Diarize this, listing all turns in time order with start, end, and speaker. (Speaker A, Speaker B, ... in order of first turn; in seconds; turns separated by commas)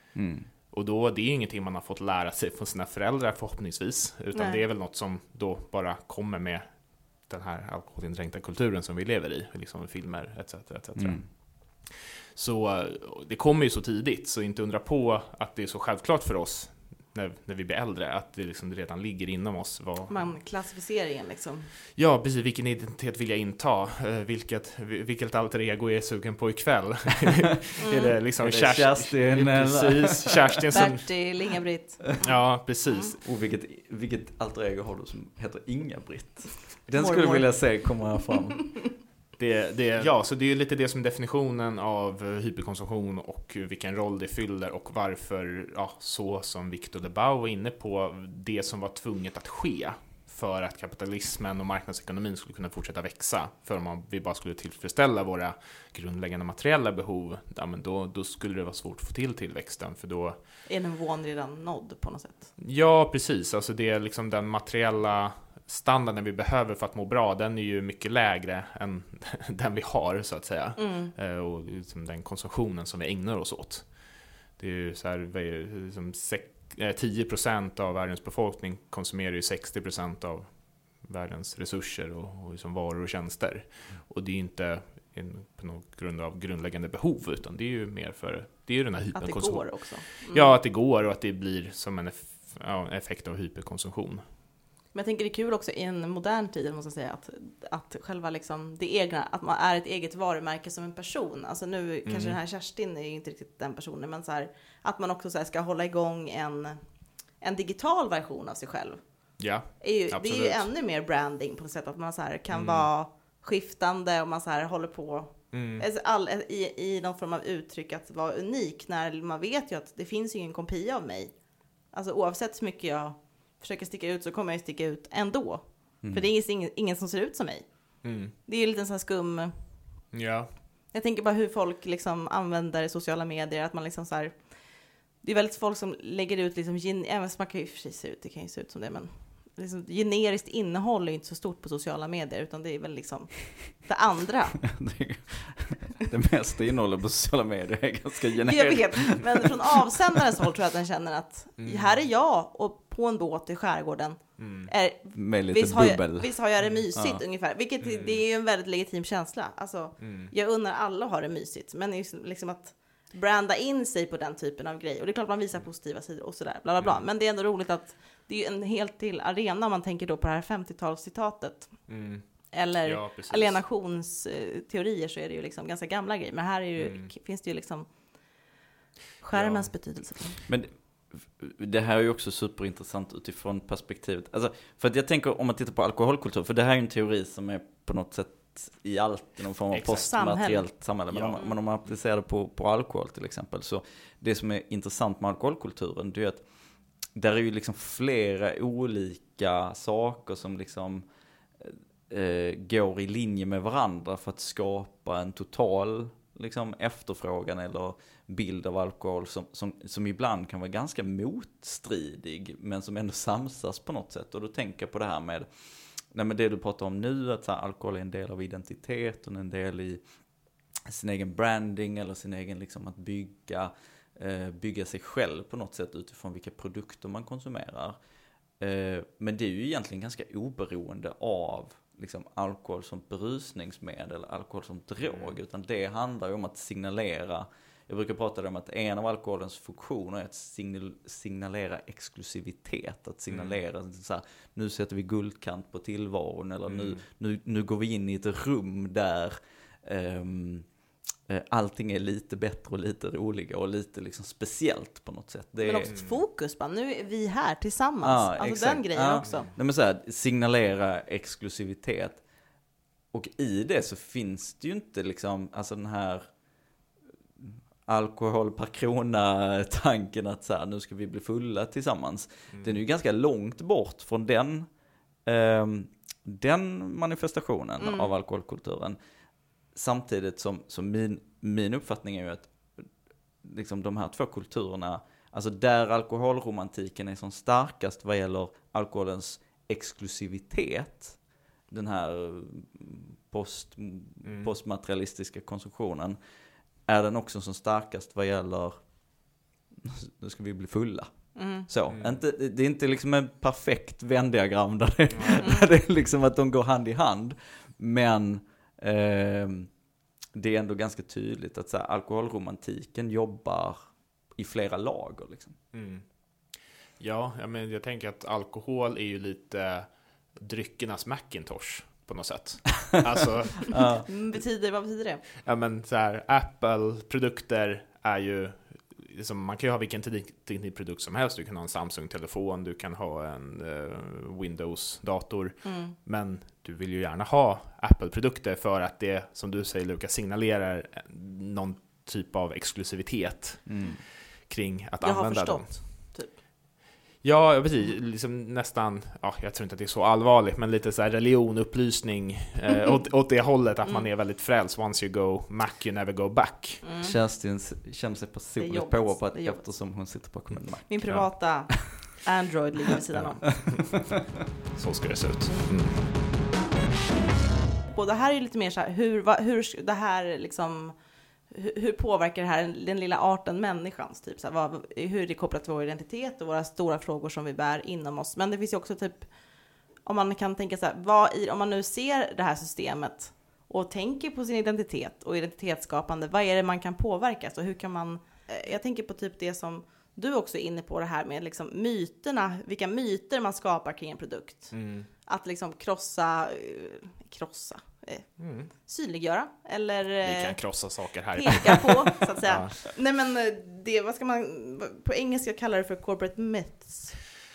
Speaker A: 0.1-0.5, Speaker B: 0.7-20.4, Speaker C: 4.3-4.6, Speaker A: 10.9-11.2, Speaker C: 20.1-21.7, Speaker B: 21.9-31.3, Speaker C: 27.8-28.1, Speaker A: 28.4-30.4, Speaker C: 30.7-33.1, Speaker B: 32.2-33.2, Speaker A: 33.2-39.0, Speaker C: 36.9-37.8, Speaker B: 39.4-60.4, Speaker C: 60.6-62.5, Speaker B: 62.6-94.2, Speaker C: 70.8-71.1, Speaker C: 89.1-90.6, Speaker C: 94.9-106.8, Speaker B: 102.0-102.4, Speaker C: 107.4-109.0, Speaker B: 109.4-110.7, Speaker C: 109.8-121.4, Speaker B: 112.5-112.9, Speaker B: 115.5-115.8, Speaker C: 121.9-129.8, Speaker A: 126.0-126.3, Speaker B: 128.0-128.3, Speaker B: 130.1-130.5, Speaker C: 130.9-144.7, Speaker A: 144.7-149.4, Speaker C: 148.4-178.4, Speaker B: 151.6-152.1, Speaker B: 154.4-154.7, Speaker A: 155.1-156.4, Speaker A: 156.9-157.2, Speaker B: 157.8-158.2, Speaker B: 160.0-160.3, Speaker B: 166.8-167.1, Speaker B: 171.9-173.6, Speaker B: 176.8-177.1, Speaker C: 179.2-180.4, Speaker B: 179.3-179.7, Speaker A: 180.5-196.4, Speaker B: 189.7-190.1, Speaker C: 189.9-190.8, Speaker B: 191.1-191.4, Speaker A: 197.1-201.0, Speaker A: 201.6-220.0, Speaker A: 220.9-228.0, Speaker A: 228.6-255.9, Speaker B: 235.0-235.4, Speaker B: 243.3-243.6, Speaker B: 246.7-247.0, Speaker C: 255.6-259.5, Speaker B: 255.9-256.1, Speaker A: 258.0-262.3, Speaker B: 259.2-259.5, Speaker A: 263.1-266.3, Speaker A: 267.4-279.0, Speaker B: 272.5-272.8, Speaker C: 277.8-278.1, Speaker A: 279.7-282.9, Speaker A: 283.4-296.2, Speaker B: 294.2-294.5, Speaker A: 296.8-299.3, Speaker A: 299.8-309.7, Speaker C: 301.3-301.7, Speaker B: 301.9-302.2, Speaker A: 310.3-315.6, Speaker B: 315.7-316.1, Speaker B: 317.0-323.9, Speaker A: 323.7-324.0, Speaker C: 324.1-325.2, Speaker B: 325.4-346.1, Speaker C: 335.6-335.9, Speaker A: 343.6-344.0, Speaker C: 345.0-346.3, Speaker B: 347.2-356.8, Speaker C: 356.8-357.1, Speaker A: 357.0-361.4, Speaker C: 358.6-359.7, Speaker C: 360.9-363.6, Speaker B: 363.1-364.1, Speaker B: 364.7-366.0, Speaker C: 365.5-365.7, Speaker C: 367.9-407.2, Speaker B: 394.7-395.1, Speaker B: 398.4-398.7, Speaker B: 400.2-402.8